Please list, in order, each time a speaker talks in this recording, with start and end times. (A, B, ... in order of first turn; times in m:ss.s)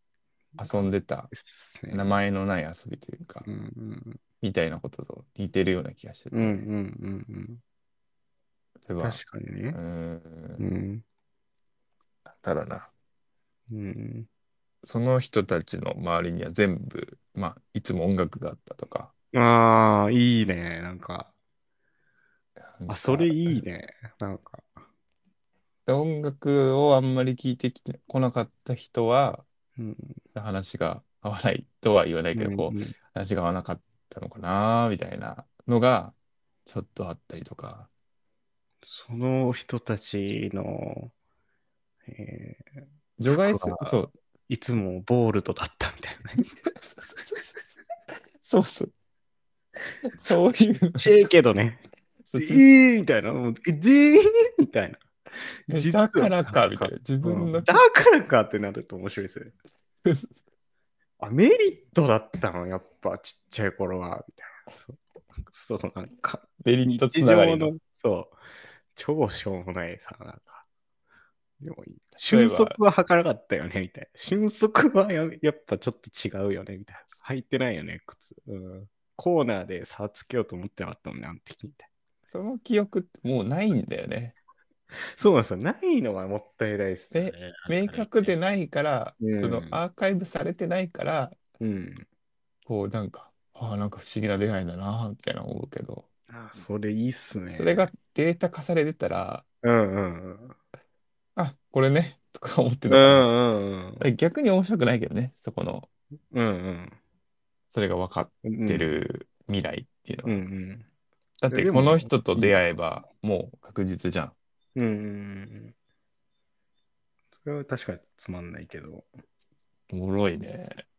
0:00.6-0:01.3 A
0:00.8-0:02.1 B
0:01.9-0:03.4 A
0:03.4-0:04.2 B
0:04.4-0:06.6 A
0:06.3-0:07.6 B
0:08.8-0:09.2 A
0:09.0-0:09.8 B
0:09.7-0:10.6 A
0:10.6-0:11.0 B
0:12.2-0:12.9 A
0:13.7-0:14.3 B
0:14.8-0:19.1 A
0:19.3-0:21.3 B
0:22.6-0:23.6 A
0:22.9-0:24.8 B
0:25.9-0:29.4 A
0:29.8-0:30.2 B
0:30.3-0:36.1 A
0:32.3-0:32.9 B
0:36.6-0:37.9 A
0:38.8-0:41.1 B
0:42.1-0:46.6 B
0:43.2-0:44.1 A
0:46.8-0:47.6 A
0:48.4-0:48.9 A
0:50.0-0:51.1 A
0:50.9-0:59.5 B
0:52.3-0:52.6 A
0:55.7-0:57.8 A
1:00.0-1:00.4 A
1:01.2-1:08.4 B
1:06.6-1:07.7 A
1:08.9-1:10.6 B
1:11.6-1:21.9 B
1:12.2-1:12.8 A
1:22.3-1:24.4 A
1:24.9-1:28.4 B
1:27.1-1:31.4 A
1:29.2-1:29.8 B
1:31.6-1:32.0 B
1:32.6-1:36.1 A
1:36.3-1:37.9 B
1:37.6-1:39.4 A
1:39.6-1:40.6 B
1:41.4-1:43.3 A
1:42.8-1:44.1 B
1:44.0-1:45.9 A
1:46.3-1:47.0 B
1:47.7-1:50.4 A
1:48.4-1:48.9 B
1:50.2-1:50.9 B
1:51.4-1:54.3 A
1:51.5-1:52.6 B
1:54.8-1:55.7 B
1:57.4-1:59.1 B
1:59.9-2:00.8 A